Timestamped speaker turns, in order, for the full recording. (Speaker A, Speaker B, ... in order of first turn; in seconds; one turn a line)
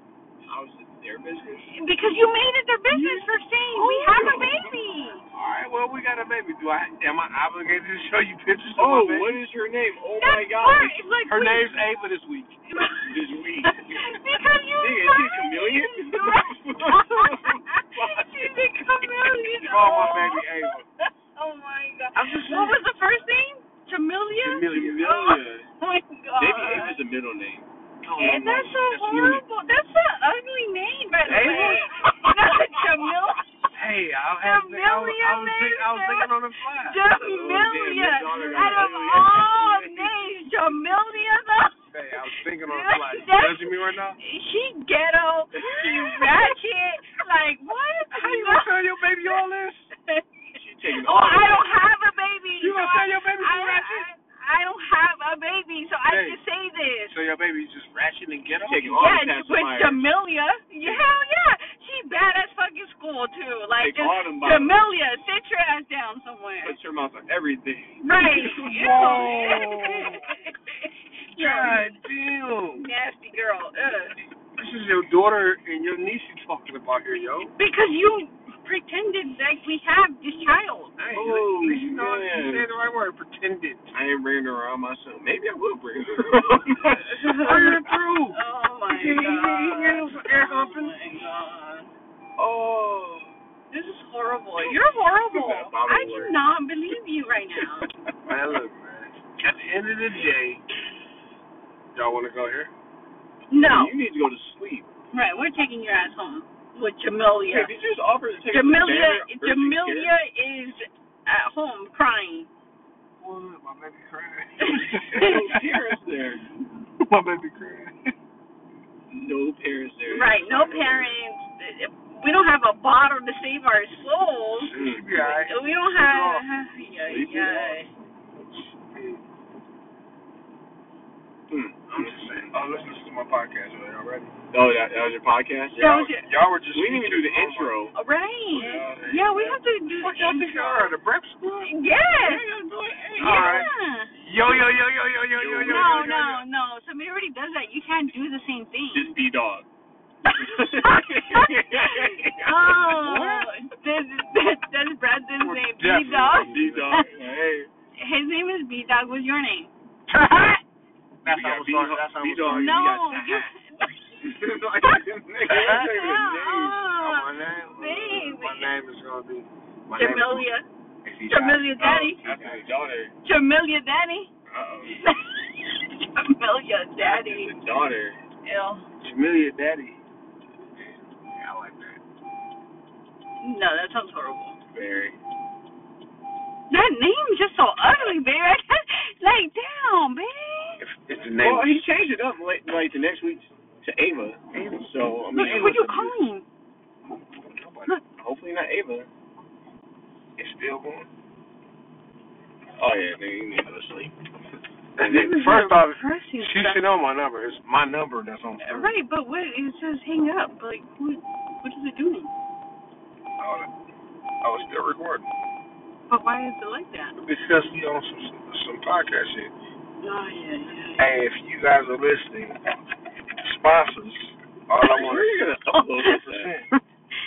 Speaker A: 0.5-1.7
Speaker B: 1.7-5.2
Speaker C: 2.9-4.3
Speaker A: 4.1-4.7
Speaker C: 5.3-9.4
Speaker A: 8.8-11.0
Speaker B: 10.1-12.0
Speaker C: 11.2-12.6
Speaker B: 12.7-27.0
Speaker A: 13.1-14.1
Speaker A: 14.8-18.7
Speaker C: 19.5-20.8
Speaker C: 22.1-22.9
Speaker C: 24.4-25.1
Speaker A: 24.6-25.7
Speaker A: 26.4-29.4
Speaker C: 28.0-28.7
Speaker B: 28.2-33.5
Speaker A: 31.2-32.1
Speaker C: 31.3-32.0
Speaker C: 33.7-37.0
Speaker B: 34.4-49.4
Speaker A: 37.2-40.1
Speaker C: 41.9-44.2
Speaker A: 45.6-46.5
Speaker C: 48.1-49.9
Speaker B: 50.0-50.3
Speaker A: 50.5-51.7
Speaker B: 50.9-57.2
Speaker C: 52.6-54.1
Speaker C: 56.1-56.4
Speaker C: 57.1-59.0
Speaker A: 58.5-60.0
Speaker B: 58.9-66.8
Speaker A: 63.8-64.9
Speaker A: 66.6-68.6
Speaker B: 68.0-72.0
Speaker C: 68.4-70.4
Speaker C: 71.3-72.9
Speaker B: 72.7-74.2
Speaker C: 74.5-77.5
Speaker B: 77.5-80.9
Speaker C: 81.0-83.9
Speaker A: 81.1-82.7
Speaker A: 83.9-87.9
Speaker C: 87.0-90.9
Speaker B: 88.3-91.9
Speaker A: 92.4-93.3
Speaker B: 93.7-97.9
Speaker A: 94.6-96.4
Speaker C: 98.2-100.6
Speaker C: 101.9-102.7
Speaker B: 103.5-103.9
Speaker A: 103.6-104.9
Speaker B: 105.1-107.7
Speaker A: 107.4-110.1
Speaker B: 108.5-112.5
Speaker C: 113.2-115.8
Speaker B: 114.6-115.3
Speaker A: 115.1-116.4
Speaker C: 117.0-118.1
Speaker A: 119.1-121.2
Speaker B: 120.0-127.9
Speaker C: 124.5-126.4
Speaker A: 124.7-125.0
Speaker A: 127.0-127.8
Speaker C: 128.5-129.2
Speaker A: 131.5-132.5
Speaker C: 131.9-134.3
Speaker A: 134.5-136.2
Speaker B: 135.7-136.3
Speaker C: 135.8-137.8
Speaker A: 136.7-137.9
Speaker B: 137.9-140.9
Speaker A: 138.5-139.6
Speaker C: 138.6-139.1
Speaker C: 139.9-141.8
Speaker B: 141.6-142.4
Speaker A: 142.1-143.7
Speaker C: 143.2-146.4
Speaker B: 143.2-144.1
Speaker A: 145.3-146.3
Speaker B: 145.6-149.2
Speaker A: 148.9-149.7
Speaker B: 150.3-157.1
Speaker A: 150.3-153.4
Speaker C: 153.1-153.4
Speaker C: 155.4-157.0
Speaker A: 156.4-157.7
Speaker B: 158.0-160.6
Speaker C: 160.1-160.6
Speaker C: 161.2-162.8
Speaker A: 161.2-163.5
Speaker B: 162.5-164.1
Speaker A: 164.2-166.8
Speaker B: 164.8-168.7
Speaker C: 165.4-166.1
Speaker C: 166.9-170.5
Speaker B: 169.9-170.7
Speaker C: 171.0-172.6
Speaker B: 171.3-172.2
Speaker A: 171.8-173.1
Speaker B: 173.2-174.3
Speaker A: 174.5-175.1
Speaker B: 174.8-177.6
Speaker A: 177.0-178.2
Speaker B: 178.4-178.9
Speaker C: 179.0-180.0
Speaker C: 180.8-182.0
Speaker B: 183.4-184.6
Speaker A: 184.7-185.2
Speaker B: 186.7-190.8
Speaker C: 190.8-191.8
Speaker A: 191.4-196.2
Speaker C: 194.5-195.5
Speaker B: 195.3-196.4
Speaker C: 197.4-198.0
Speaker A: 198.2-199.1
Speaker C: 200.4-201.1
Speaker A: 202.8-204.1
Speaker C: 205.0-208.9
Speaker B: 205.0-206.8
Speaker B: 208.6-212.3
Speaker C: 213.4-213.7
Speaker C: 214.4-215.3
Speaker B: 216.1-217.1
Speaker C: 217.2-219.5
Speaker B: 220.0-221.1
Speaker C: 221.0-222.6
Speaker C: 223.3-225.4
Speaker A: 224.8-226.6
Speaker C: 226.0-226.7